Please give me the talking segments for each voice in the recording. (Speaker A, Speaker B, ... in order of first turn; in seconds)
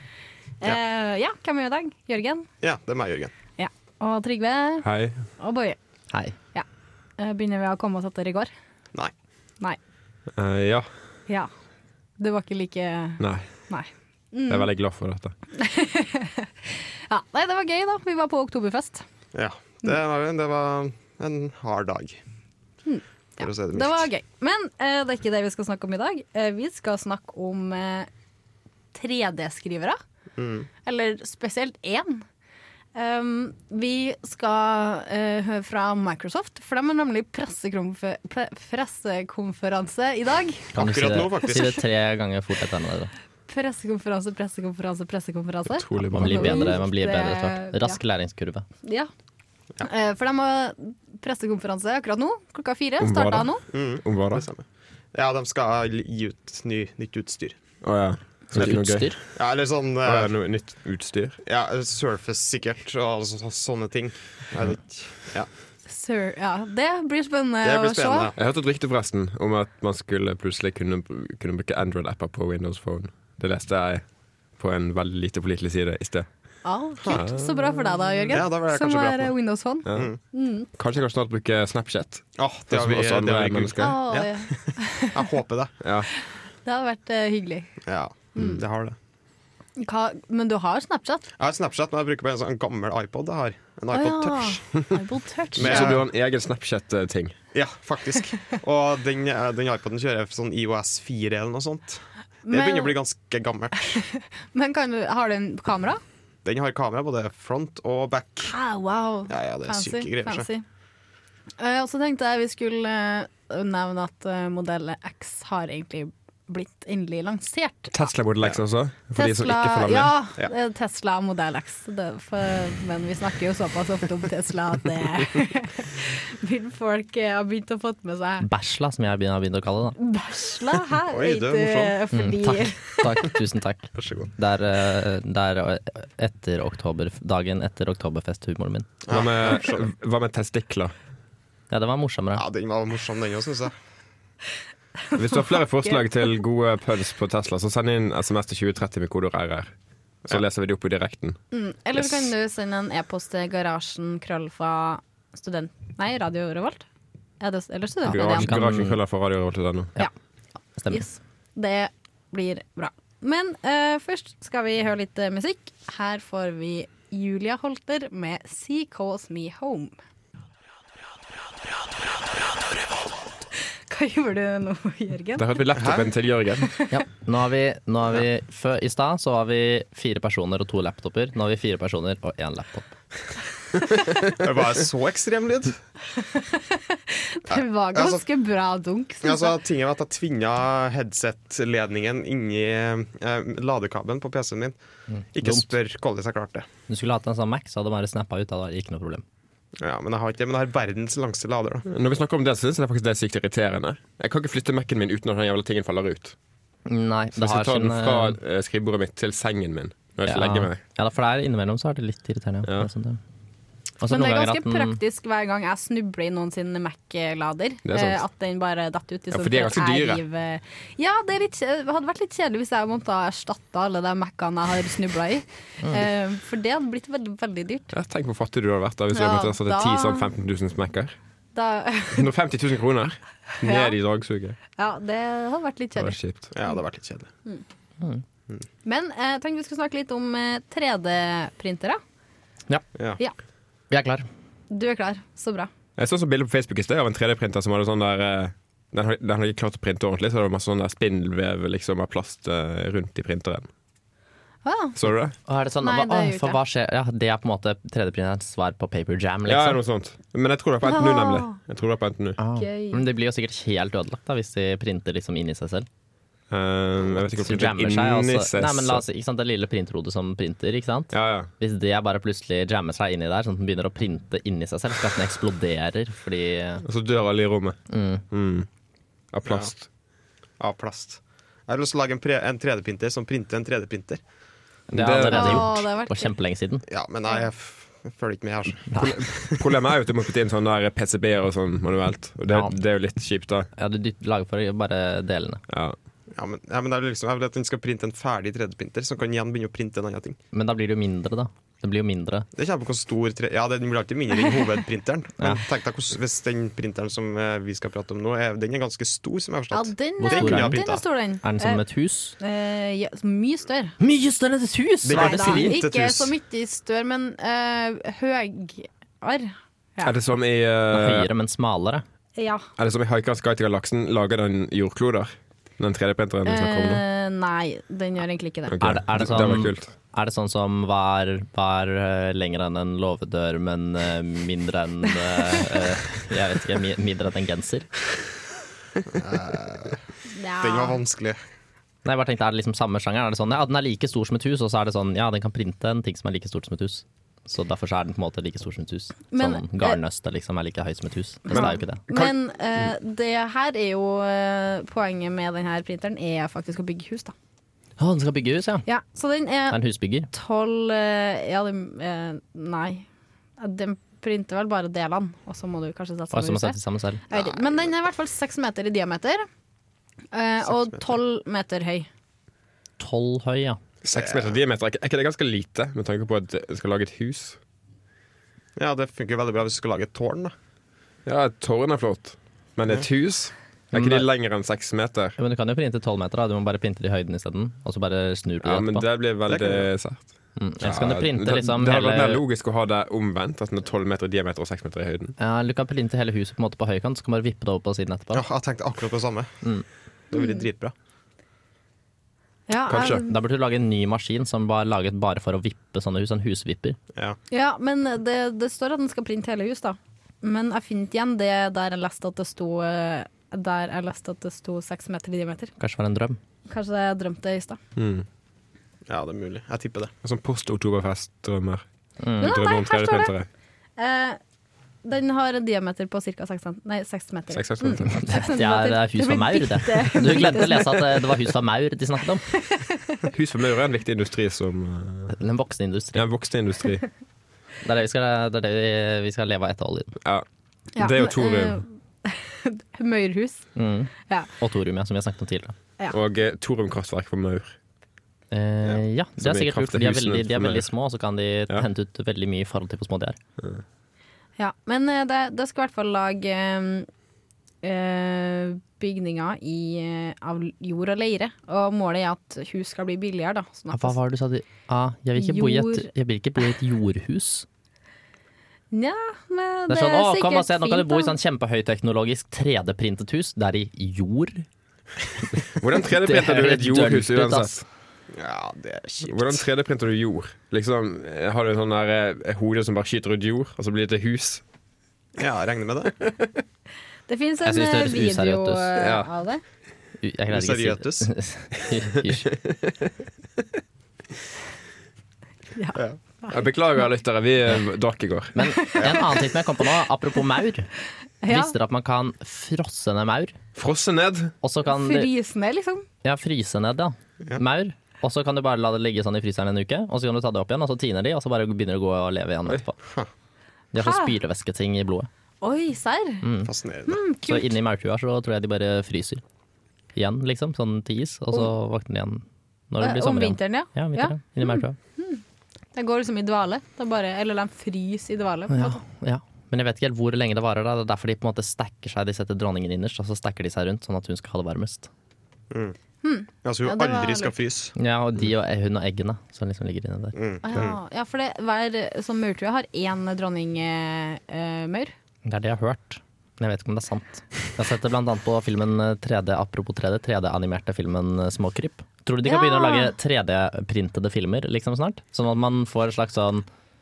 Speaker A: 0.6-2.5, 3.6-4.9, 5.4-5.8, 7.2-8.5, 12.2-14.7, 15.5-19.0, 22.9-28.1, 28.9-30.0, 30.8-32.2, 32.9-40.7, 43.5-48.0, 48.8-49.1, 49.8-53.6, 65.8-68.3, 76.6-80.7, 83.8-85.2, 86.2-87.7, 89.8-91.3, 93.9-96.0, 102.4-103.0, 103.8-106.0, 108.5-110.6, 111.6-118.1, 119.1-128.4, 130.0-133.1, 151.5-156.8, 157.4-158.7, 160.9-169.9, 173.9-175.6, 186.2-189.5, 214.1-227.9, 229.1-230.3, 231.5-232.3, 233.6-234.0, 234.8-236.7, 238.8-242.0, 244.7-245.7, 254.6-255.0, 255.8-256.6, 260.8-261.5, 262.5-263.0, 285.3-286.3, 309.7-311.8, 312.4-314.0, 315.1-320.2, 322.4-322.7, 326.4-328.7, 340.3-341.0, 349.3-350.0, 351.4-357.3, 358.9-359.8, 360.3-363.0, 363.6-366.8, 367.3-369.5, 370.3-372.1, 400.3-400.6, 402.7-403.3, 407.5-415.7, 416.7-417.8, 422.4-423.3, 424.0-424.4, 425.0-431.2, 432.5-433.3, 440.9-443.7, 454.6-457.1, 457.8-464.1, 465.4-466.1, 468.9-471.3, 487.3-489.6, 495.7-496.6, 498.6-499.4, 501.4-501.7, 504.8-506.1, 514.0-514.3, 515.6-516.4, 517.0-517.7, 523.0-525.4, 525.9-529.0, 536.2-537.5, 540.6-545.1, 552.4-553.1
Speaker B: 2.6-3.3, 19.3-22.2, 23.4-24.1, 30.4-30.7, 40.7-41.8, 53.7-57.6, 59.4-60.3, 61.4-65.5, 67.6-68.3, 78.3-79.3, 82.4-85.8, 87.8-89.0, 91.4-94.6, 95.5-96.1, 97.5-104.0, 106.4-108.5, 109.3-110.5, 131.1-132.0, 133.9-134.3, 139.1-139.8, 142.3-143.7, 175.8-176.1, 184.3-185.8, 187.5-188.2, 189.2-194.8, 195.3-196.7, 199.8-201.8, 236.5-237.3, 279.4-279.7, 280.6-284.2, 286.9-289.6, 296.3-300.4, 302.5-311.0, 315.0-316.3, 339.1-340.0, 340.6-341.4, 367.3-367.9, 370.6-371.1, 374.1-374.6, 378.8-380.5, 389.4-389.9, 398.3-399.6, 400.3-400.9, 419.1-420.1, 478.3-479.6, 485.4-486.1, 490.5-491.3, 513.0-513.3, 516.6-517.2, 535.7-536.0, 536.6-537.9, 540.3-541.0
Speaker C: 4.8-5.2, 10.3-10.9, 13.2-13.5, 14.5-15.3, 45.7-46.8, 53.0-54.5, 57.8-59.2, 60.0-61.4, 68.3-74.0, 74.5-76.3, 77.1-78.3, 80.7-84.0, 85.8-86.1, 95.6-97.3, 117.9-120.1, 139.1-140.9, 145.1-149.7, 150.3-151.4, 151.9-152.2, 158.1-159.9, 175.3-176.8, 201.8-206.3, 207.3-210.8, 217.8-218.2, 219.3-220.2, 227.9-231.1, 232.1-234.6, 236.0-236.5, 246.0-253.7, 255.0-255.3, 259.5-262.4, 266.5-269.0, 271.1-271.5, 276.8-277.8, 278.3-278.7, 279.3-279.9, 284.9-285.8, 289.0-293.7, 295.7-295.9, 320.0-321.3, 322.8-327.0, 328.7-329.9, 351.5-352.3, 374.0-377.6, 381.2-385.4, 388.6-395.4, 402.9-403.2, 417.9-418.2, 420.2-421.8, 422.4-423.5, 427.5-428.1, 433.3-435.3, 436.1-437.1, 441.0-441.8, 446.1-447.7, 449.4-450.9, 475.8-477.8, 479.2-484.6, 489.0-489.3, 492.6-492.9, 496.5-498.6, 503.8-504.5
Speaker D: 6.1-6.3, 40.7-43.1, 46.1-48.6, 58.5-59.2, 128.4-130.0, 132.1-138.9, 141.7-142.4, 158.0-159.0, 160.8-161.0, 176.9-182.9, 195.1-195.7, 196.9-199.2, 206.8-208.4, 210.2-213.2, 214.0-215.0, 225.8-226.1, 243.9-244.2, 255.4-259.8, 262.4-265.9, 267.1-276.8, 277.9-278.2, 284.9-286.8, 288.9-289.2, 292.5-292.8, 293.8-295.6, 300.5-302.4, 310.2-310.9, 311.4-312.4, 314.0-315.8, 320.9-322.0, 328.8-337.9, 342.0-352.0, 358.0-358.9, 359.7-360.3, 366.3-367.2, 373.0-373.8, 383.9-384.3, 385.4-389.1, 390.6-392.4, 395.4-398.4, 402.9-407.0, 415.8-416.4, 422.2-422.5, 428.1-432.5, 435.3-436.2, 437.8-440.1, 443.7-445.8, 448.5-453.4, 463.9-467.6, 469.9-474.6, 476.1-477.8, 487.6-488.9, 490.2-492.5, 498.5-500.9, 501.5-503.6, 504.6-505.3, 506.2-513.0, 513.9-515.3, 516.4-516.7, 517.4-519.4, 520.1-525.0, 528.7-535.1, 538.0-540.4, 545.5-556.7